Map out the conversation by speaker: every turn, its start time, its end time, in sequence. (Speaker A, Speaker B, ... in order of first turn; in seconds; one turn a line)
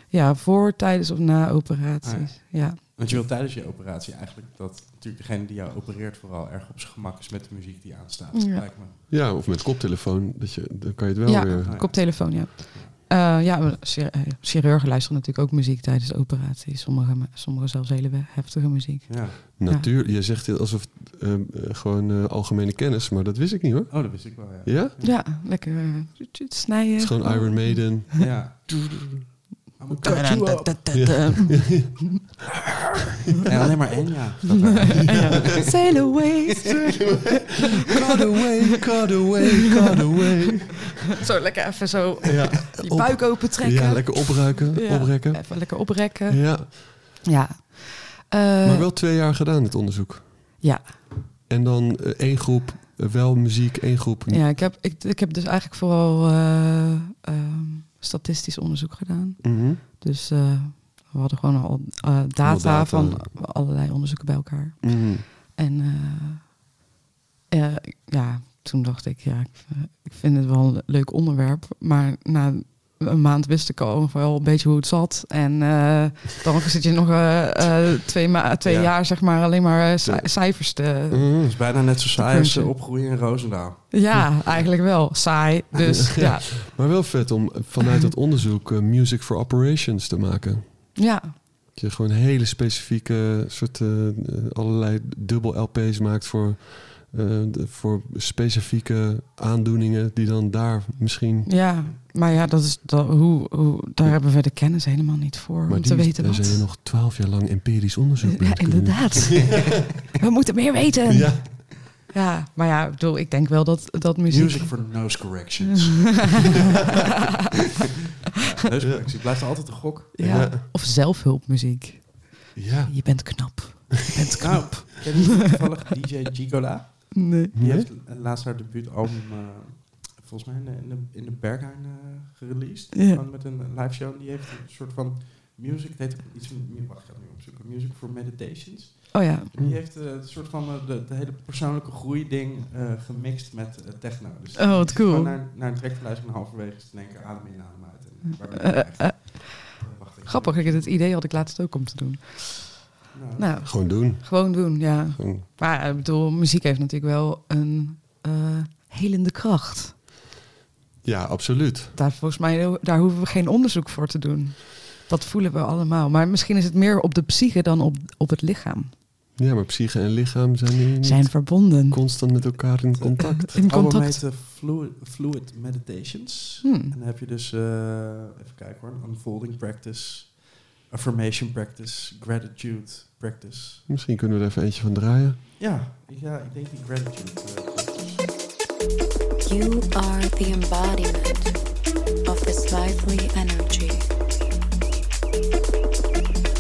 Speaker A: 0.1-2.8
Speaker B: 2.0-8.9
Speaker C: 9.1-11.8
Speaker A: 11.3-19.9
Speaker B: 11.7-12.9
Speaker B: 19.1-19.4
Speaker C: 19.6-24.9
Speaker B: 23.9-25.2
Speaker A: 25.0-28.0
Speaker C: 27.0-29.3
Speaker B: 28.2-28.5
Speaker B: 29.8-30.9
Speaker A: 30.0-32.2
Speaker C: 30.9-32.3
Speaker B: 33.5-36.1
Speaker A: 34.8-37.0
Speaker C: 36.6-41.1
Speaker A: 41.2-48.9
Speaker C: 42.2-46.7
Speaker C: 48.6-50.6
Speaker A: 50.6-50.9
Speaker C: 51.5-54.4
Speaker A: 54.3-66.6
Speaker C: 59.4-59.8
Speaker C: 62.4-63.3
Speaker C: 64.8-65.2
Speaker A: 67.5-81.5
Speaker B: 78.6-78.9
Speaker C: 80.0-81.8
Speaker B: 81.4-84.7
Speaker A: 82.2-82.7
Speaker A: 83.9-86.9
Speaker C: 85.9-90.9
Speaker A: 91.0-91.3
Speaker C: 91.8-101.5
Speaker A: 101.5-106.7
Speaker C: 105.7-109.5
Speaker A: 108.3-115.2
Speaker C: 111.1-111.4
Speaker B: 114.3-116.6
Speaker B: 118.3-120.2
Speaker C: 118.8-119.1
Speaker A: 120.2-125.1
Speaker C: 120.2-120.6
Speaker C: 122.5-123.7
Speaker B: 124.4-150.9
Speaker A: 127.1-127.5
Speaker C: 127.5-127.9
Speaker A: 132.9-133.2
Speaker A: 139.1-139.5
Speaker A: 144.6-145.4
Speaker A: 148.6-160.0
Speaker B: 153.1-153.5
Speaker C: 153.7-155.4
Speaker C: 161.0-161.9
Speaker A: 161.9-168.9
Speaker C: 169.4-173.6
Speaker A: 171.0-172.0
Speaker B: 173.0-183.9
Speaker A: 173.2-174.2
Speaker A: 176.6-176.9
Speaker C: 183.9-185.4
Speaker B: 185.6-188.3
Speaker D: 189.4-191.6
Speaker D: 192.2-194.1